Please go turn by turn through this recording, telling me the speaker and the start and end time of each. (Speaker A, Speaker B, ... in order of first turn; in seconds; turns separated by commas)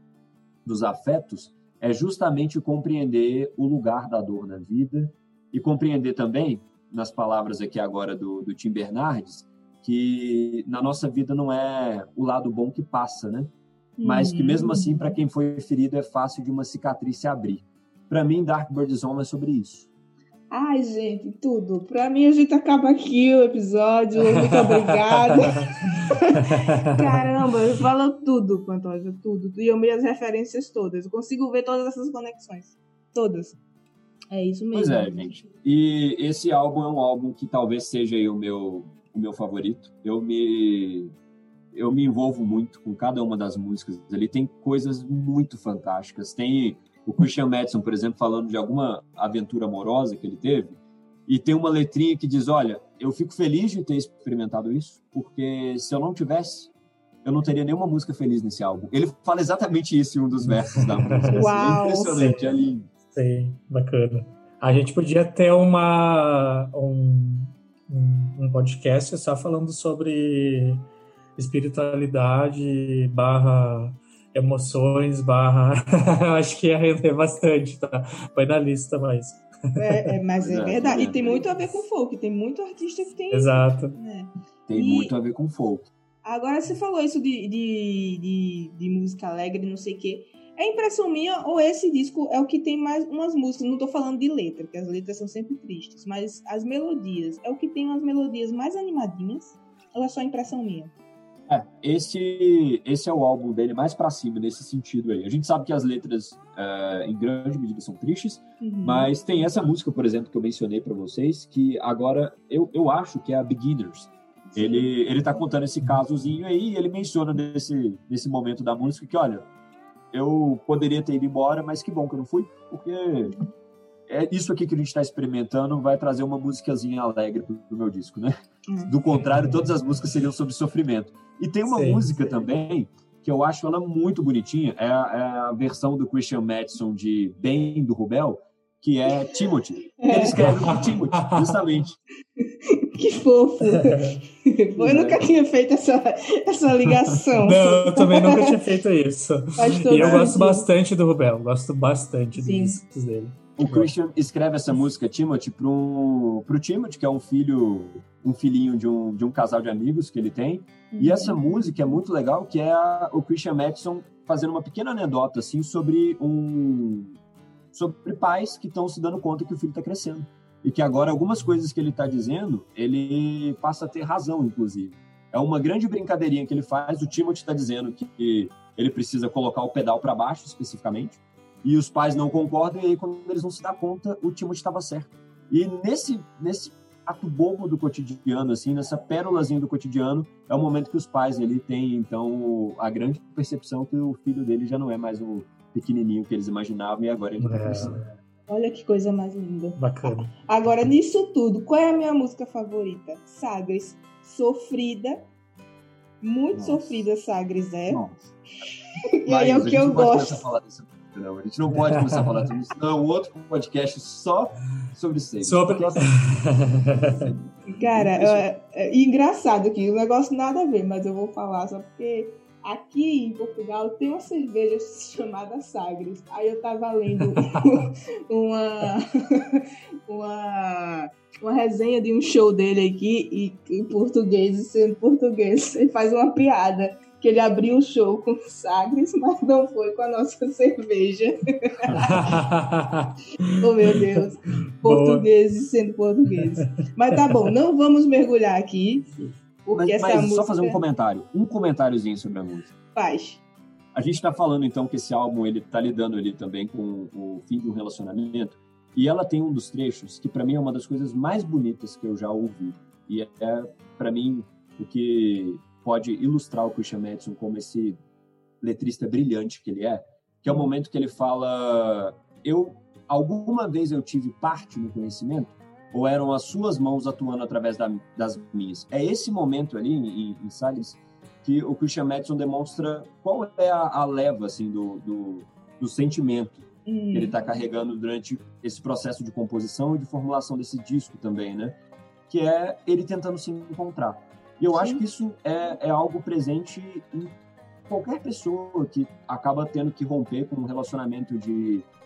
Speaker A: 0.6-13.5, Speaker B: 14.0-15.2, Speaker A: 14.0-19.9, Speaker B: 20.5-33.6, Speaker C: 24.2-24.7, Speaker B: 34.3-35.4, Speaker A: 34.7-41.1, Speaker A: 41.7-56.7, Speaker A: 57.2-62.9, Speaker C: 60.5-62.5, Speaker B: 61.3-62.3, Speaker C: 63.1-70.8, Speaker C: 71.4-79.9, Speaker B: 79.8-85.1, Speaker A: 80.4-81.5, Speaker C: 83.3-84.0, Speaker A: 84.7-85.9, Speaker B: 86.2-100.9, Speaker A: 101.5-119.4, Speaker B: 108.6-109.1, Speaker B: 114.5-114.9, Speaker A: 120.1-123.4, Speaker A: 124.1-128.3, Speaker B: 128.7-128.9, Speaker A: 128.9-142.0, Speaker C: 131.7-132.1, Speaker B: 140.0-140.4, Speaker C: 140.4-141.6, Speaker B: 142.6-148.6, Speaker C: 143.7-144.2, Speaker A: 144.8-145.2, Speaker A: 146.8-147.1, Speaker C: 147.4-153.9, Speaker B: 149.6-150.7, Speaker A: 150.0-150.3, Speaker B: 152.3-152.8, Speaker A: 153.6-167.2, Speaker B: 160.9-161.9, Speaker A: 167.7-197.9, Speaker C: 197.4-198.1, Speaker B: 198.5-205.3, Speaker C: 199.8-200.3, Speaker B: 206.2-208.0, Speaker A: 206.5-207.1, Speaker A: 207.9-208.2, Speaker B: 209.2-210.4, Speaker A: 209.2-216.5, Speaker C: 211.8-212.2, Speaker C: 215.4-217.3, Speaker A: 217.2-218.4, Speaker B: 217.8-242.3, Speaker C: 241.9-243.5, Speaker B: 243.6-250.8, Speaker C: 244.8-245.2, Speaker A: 249.7-252.7, Speaker B: 252.9-253.4, Speaker A: 253.9-268.0, Speaker A: 268.6-291.8, Speaker B: 286.9-287.4, Speaker A: 292.3-297.3, Speaker B: 294.7-295.0, Speaker A: 297.9-301.9